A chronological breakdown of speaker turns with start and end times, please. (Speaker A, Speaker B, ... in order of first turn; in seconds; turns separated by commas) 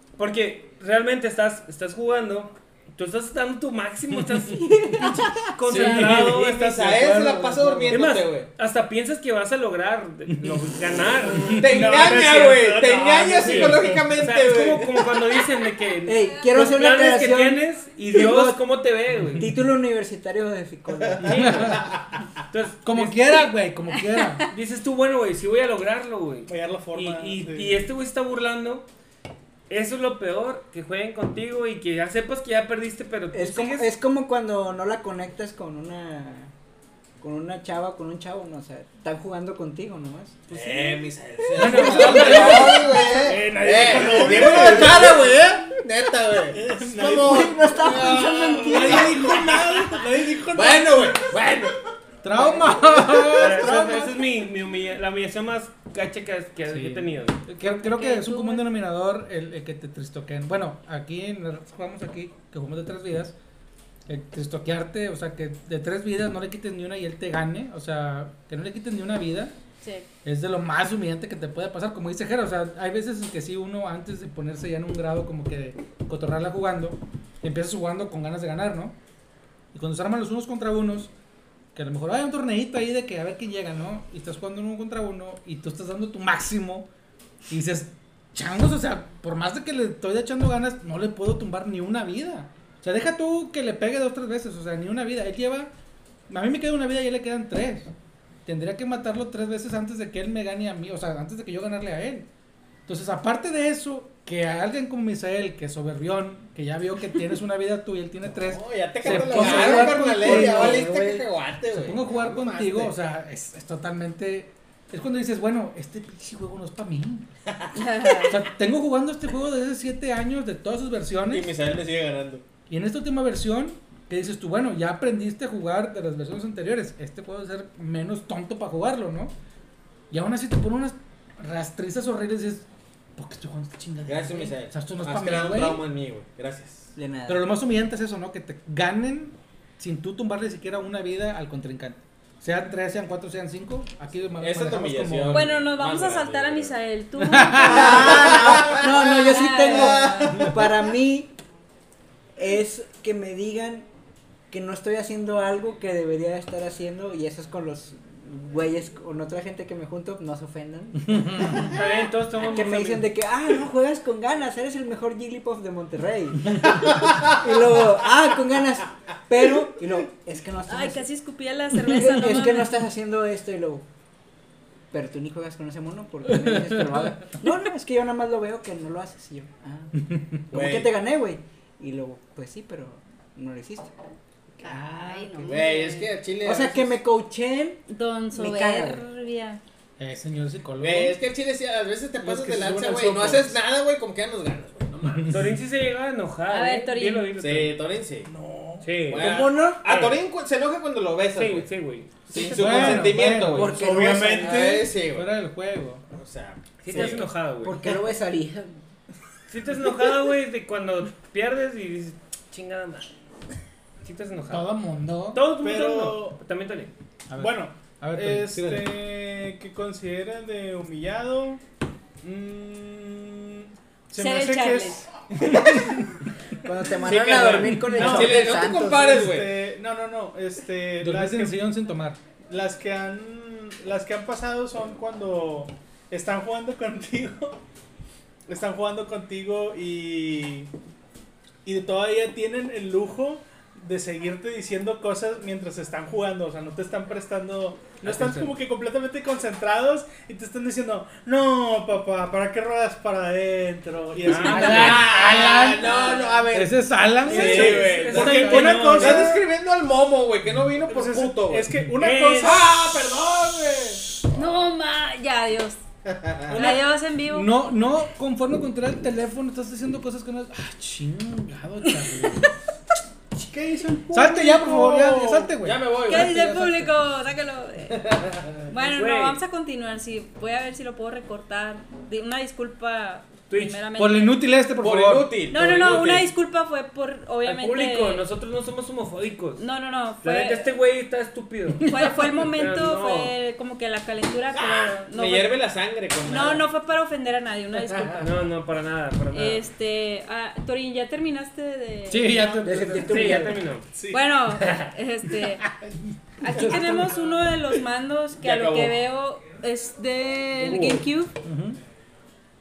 Speaker A: 0.2-6.8, Speaker B: 4.5-5.5, Speaker C: 5.7-6.4, Speaker D: 5.8-8.5, Speaker C: 7.0-7.9, Speaker A: 7.9-12.5, Speaker C: 11.3-11.7, Speaker D: 11.5-15.1, Speaker E: 11.7-14.2, Speaker A: 13.4-19.5, Speaker B: 16.1-18.6, Speaker C: 19.1-19.6, Speaker B: 19.4-21.7, Speaker C: 21.2-21.9, Speaker D: 21.2-22.0, Speaker A: 21.3-21.8, Speaker A: 22.5-23.5, Speaker C: 22.9-24.5, Speaker A: 24.5-28.9, Speaker E: 26.5-27.8, Speaker A: 29.7-33.9, Speaker B: 33.3-36.5, Speaker B: 37.2-40.4, Speaker A: 40.5-41.0, Speaker D: 40.5-51.8, Speaker C: 41.6-42.8, Speaker B: 41.6-43.3, Speaker A: 41.6-42.8, Speaker E: 42.6-45.4, Speaker E: 46.5-51.4, Speaker B: 47.1-49.2, Speaker C: 52.2-54.2, Speaker A: 53.3-57.4, Speaker C: 56.7-63.4, Speaker F: 57.6-58.7, Speaker C: 64.1-69.5, Speaker F: 69.8-70.1, Speaker C: 70.2-79.0, Speaker C: 79.7-81.1, Speaker C: 81.8-86.9, Speaker C: 87.5-95.7, Speaker C: 96.3-97.9, Speaker C: 98.5-102.3, Speaker C: 102.9-111.0, Speaker D: 108.4-112.9, Speaker B: 109.1-111.2, Speaker C: 111.7-117.3, Speaker F: 117.7-118.4, Speaker C: 118.3-121.5, Speaker D: 121.3-122.5, Speaker C: 122.7-129.3, Speaker C: 130.1-135.8, Speaker D: 134.1-136.9, Speaker B: 137.0-137.5, Speaker C: 137.3-145.5, Speaker D: 144.4-146.8, Speaker F: 145.3-150.4, Speaker C: 147.2-147.9, Speaker B: 147.6-151.3, Speaker D: 147.7-150.7, Speaker B: 152.4-153.9, Speaker B: 154.5-161.8, Speaker C: 161.1-161.7, Speaker A: 161.6-163.1, Speaker B: 162.4-171.1, Speaker F: 170.7-172.8, Speaker B: 171.8-173.8, Speaker B: 174.9-183.9, Speaker C: 176.2-177.2, Speaker C: 180.0-180.4, Speaker D: 180.5-180.9, Speaker B: 184.6-185.8, Speaker F: 184.6-186.1, Speaker D: 185.4-187.0, Speaker B: 186.4-187.8, Speaker F: 187.9-189.6, Speaker B: 188.3-189.0, Speaker C: 190.0-191.2, Speaker D: 190.8-195.5, Speaker E: 192.2-193.6, Speaker C: 195.1-195.4, Speaker A: 195.3-197.8, Speaker F: 196.5-197.3, Speaker D: 197.4-198.3, Speaker E: 198.2-199.1, Speaker A: 198.8-200.2, Speaker D: 199.1-201.7, Speaker B: 199.1-199.8, Speaker A: 201.3-202.9, Speaker D: 202.3-205.3, Speaker C: 202.5-203.8, Speaker B: 203.5-204.8, Speaker E: 203.7-204.9, Speaker C: 205.1-206.0, Speaker D: 206.1-207.3, Speaker A: 206.8-208.0, Speaker B: 206.9-208.7, Speaker A: 209.5-213.1, Speaker A: 214.0-214.7, Speaker C: 214.5-215.4, Speaker A: 215.3-216.9, Speaker E: 215.6-216.4, Speaker C: 217.3-218.9, Speaker E: 217.4-221.6, Speaker E: 222.2-225.9, Speaker F: 224.2-225.0, Speaker C: 225.5-226.1, Speaker B: 226.6-229.1, Speaker D: 227.0-229.6, Speaker E: 227.2-231.6, Speaker C: 227.6-228.0, Speaker C: 231.0-232.2, Speaker E: 232.5-237.6, Speaker E: 238.5-240.7, Speaker E: 241.6-255.2, Speaker A: 248.0-248.6, Speaker A: 254.3-254.9, Speaker C: 254.4-259.2, Speaker D: 254.5-261.7, Speaker F: 255.8-256.5, Speaker A: 257.3-259.3, Speaker E: 257.3-259.5, Speaker E: 260.9-264.0, Speaker A: 262.0-262.6, Speaker F: 264.3-265.8, Speaker D: 266.1-266.7, Speaker E: 266.5-266.9, Speaker F: 266.5-267.5, Speaker C: 267.3-272.5, Speaker F: 271.9-272.5, Speaker E: 273.4-275.5, Speaker C: 274.1-276.3, Speaker D: 275.6-276.9, Speaker F: 276.1-284.4, Speaker D: 277.9-278.4, Speaker A: 278.7-279.4, Speaker A: 283.5-283.8, Speaker C: 284.0-285.3, Speaker D: 284.8-286.3, Speaker F: 285.5-288.3, Speaker A: 287.4-289.6, Speaker F: 289.6-290.7, Speaker A: 290.2-293.3, Speaker C: 291.8-292.4, Speaker F: 291.9-295.6, Speaker D: 294.6-296.6, Speaker F: 296.2-298.4, Speaker A: 298.2-299.6, Speaker F: 299.3-302.9, Speaker C: 302.1-303.4, Speaker B: 302.6-303.6, Speaker A: 303.0-303.9, Speaker E: 303.9-304.3, Speaker F: 304.1-305.6, Speaker A: 304.6-304.9, Speaker F: 306.4-311.3, Speaker C: 306.4-307.2, Speaker D: 308.4-308.9, Speaker A: 310.6-311.1, Speaker C: 311.4-311.8